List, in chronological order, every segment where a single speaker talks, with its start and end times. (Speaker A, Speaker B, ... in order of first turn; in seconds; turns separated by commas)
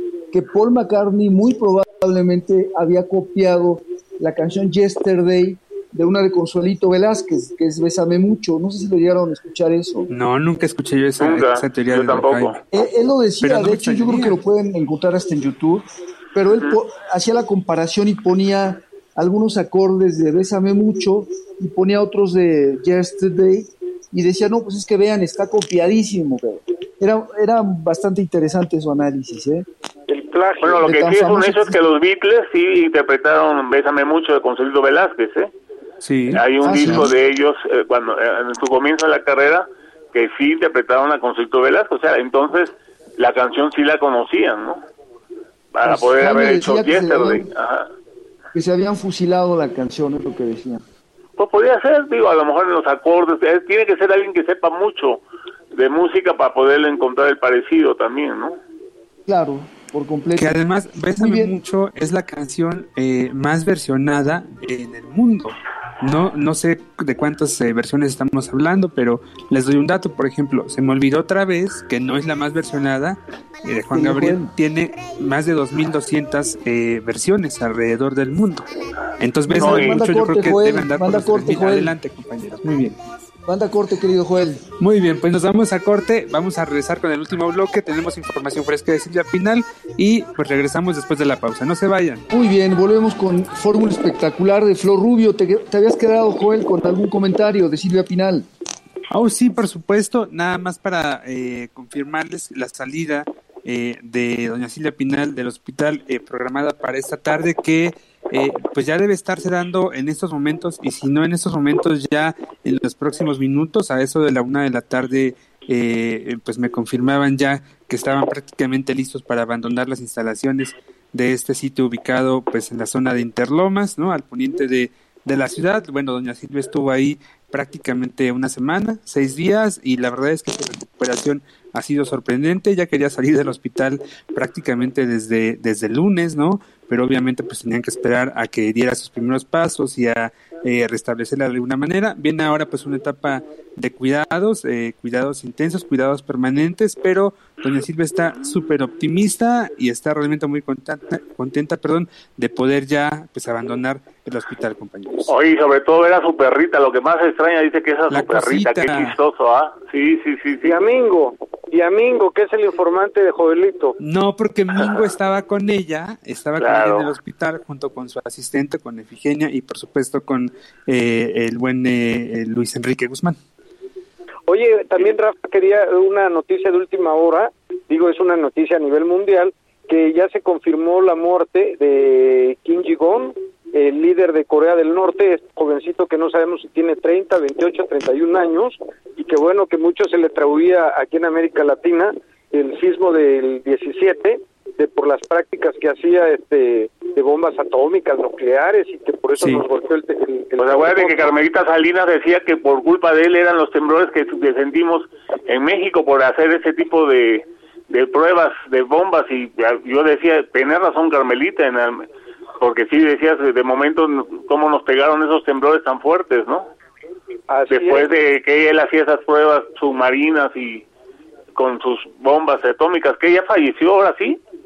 Speaker A: 0.3-10.1, Speaker B: 10.1-12.6, Speaker C: 11.2-12.6, Speaker A: 12.7-29.7, Speaker B: 13.4-14.4, Speaker C: 16.5-16.8, Speaker D: 30.1-30.9, Speaker C: 30.6-35.5, Speaker A: 30.8-31.8, Speaker B: 36.0-37.0, Speaker C: 36.3-44.8, Speaker A: 36.6-37.1, Speaker C: 45.7-47.9, Speaker A: 45.8-47.5, Speaker A: 48.5-50.8, Speaker C: 51.4-58.6, Speaker A: 59.3-60.6, Speaker B: 60.4-78.7, Speaker A: 61.2-61.5, Speaker A: 73.9-74.5, Speaker B: 79.2-83.0, Speaker A: 79.5-81.9, Speaker C: 79.6-80.0, Speaker A: 83.5-84.6, Speaker B: 84.8-92.2, Speaker A: 92.3-98.5, Speaker B: 99.1-155.3, Speaker C: 155.3-160.8, Speaker B: 158.1-159.2, Speaker D: 160.6-164.0, Speaker B: 164.0-173.4, Speaker C: 166.6-167.1, Speaker D: 174.5-201.3, Speaker B: 199.4-199.7, Speaker C: 200.6-212.1, Speaker C: 212.6-216.7, Speaker D: 217.5-218.1, Speaker C: 217.7-220.8, Speaker C: 221.6-224.4